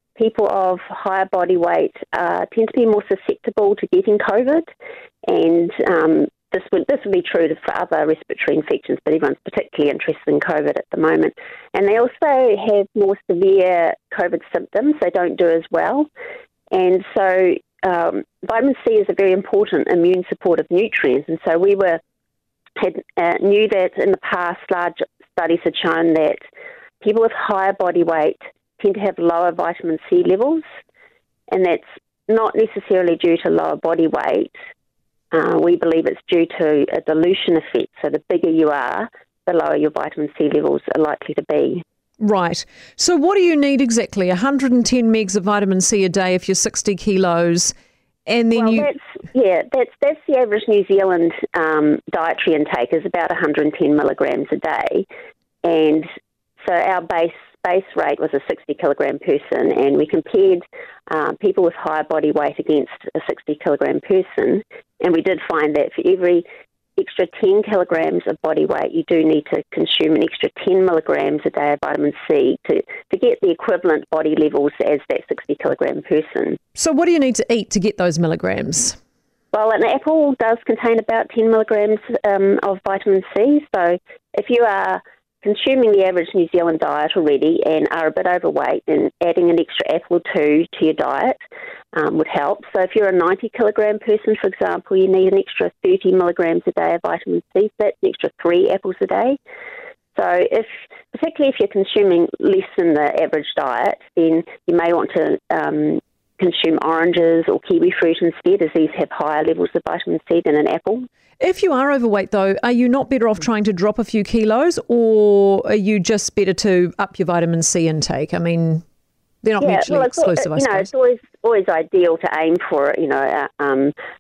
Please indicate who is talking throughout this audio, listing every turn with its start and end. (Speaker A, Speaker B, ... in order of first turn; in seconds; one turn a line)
Speaker A: 0.2-4.7
Speaker A: 5.3-16.1
Speaker A: 16.7-22.0
Speaker A: 22.8-26.4
Speaker A: 27.0-30.6
Speaker A: 31.5-34.5
Speaker A: 35.3-41.8
Speaker B: 42.2-47.7
Speaker B: 48.3-48.9
Speaker A: 48.6-55.1
Speaker A: 55.6-56.1
Speaker A: 56.6-66.5
Speaker A: 67.0-76.6
Speaker B: 76.8-79.0
Speaker A: 79.5-91.4
Speaker A: 91.9-99.4
Speaker A: 100.2-111.1
Speaker B: 111.4-118.8
Speaker B: 119.4-120.9
Speaker A: 119.6-123.9